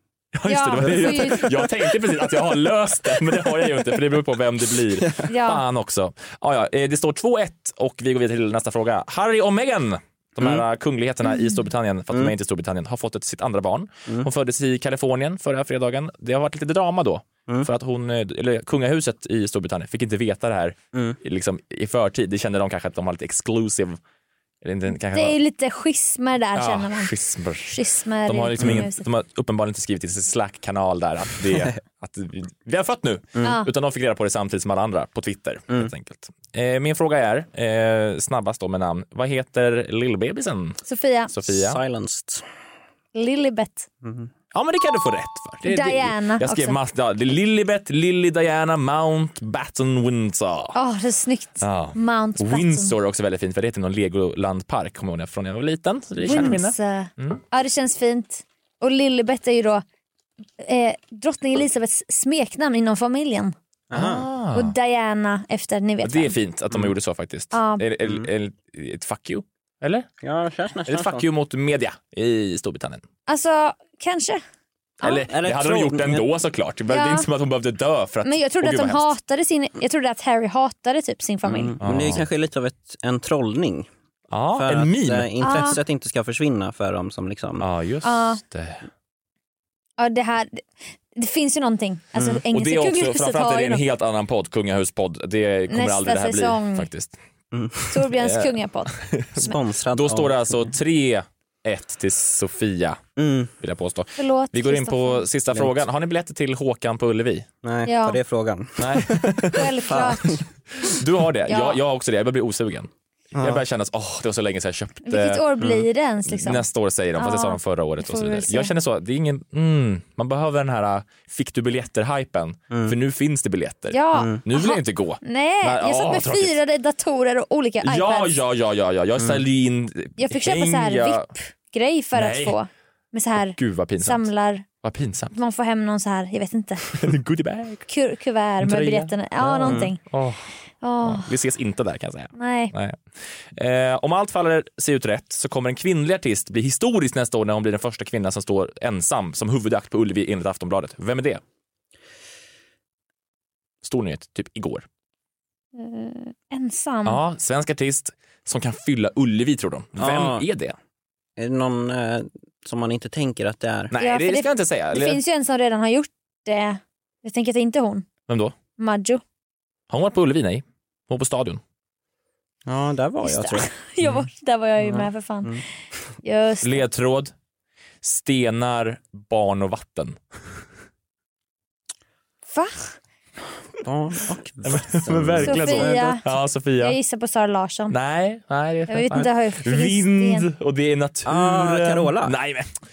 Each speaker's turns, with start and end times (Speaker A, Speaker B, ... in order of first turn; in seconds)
Speaker A: 0.3-24.0, 24.6-25.4, 26.6-41.8, 44.5-50.8, 51.6-57.4, 63.9-64.7, 66.0-70.1, 70.9-73.0, 75.0-79.1, 81.8-82.2, 84.3-85.7, 87.6-88.8, 92.2-97.2, 98.2-103.0, 103.6-107.5, 108.8-110.0, 110.8-115.5, 116.3-126.6, 127.8-131.3, 132.2-132.6, 133.6-134.3, 134.8-135.3, 136.9-137.9, 138.6-140.5, 141.0-143.0, 143.6-151.4, 153.8-154.8, 157.1-160.8, 163.9-165.2, 168.3-168.6, 169.9-171.6, 176.6-177.3, 178.0-180.2, 184.7-187.0, 187.9-192.7
Speaker B: 0.5-1.7, 5.3-5.6, 25.1-27.1, 27.7-29.0, 33.4-33.7, 40.9-41.3, 43.1-43.9, 45.6-46.8, 50.8-52.9, 56.2-59.8, 60.6-63.5, 64.5-66.3, 67.5-67.8, 73.3-74.4, 76.9-77.3, 78.2-81.8, 85.4-85.8, 88.0-88.4, 90.0-90.6, 91.2-93.8, 95.7-96.9, 97.9-99.6, 104.2-105.2, 107.9-108.2, 109.5-110.2, 111.5-111.8, 115.1-116.6, 117.2-118.7, 123.9-128.4, 130.2-134.7, 135.3-136.9, 137.9-140.0, 140.8-141.3, 142.4-142.7, 155.8-157.2, 164.0-168.1, 168.8-169.2, 173.2-175.6, 176.2-176.8, 182.5-182.9, 185.4-186.2, 186.8-187.9, 188.9-190.5
Speaker C: 0.8-1.3, 20.9-21.2, 28.6-28.9, 41.5-42.4, 44.0-44.3, 63.9-64.3, 70.2-71.2, 75.3-76.3, 81.5-83.9, 84.5-87.7, 97.5-97.9, 99.4-100.7, 103.2-103.5, 105.5-105.8, 107.6-110.4, 113.4-113.6, 139.6-139.9, 160.0-160.4, 161.4-163.9, 172.7-173.7, 174.8-175.6, 183.8-186.2, 191.3-192.3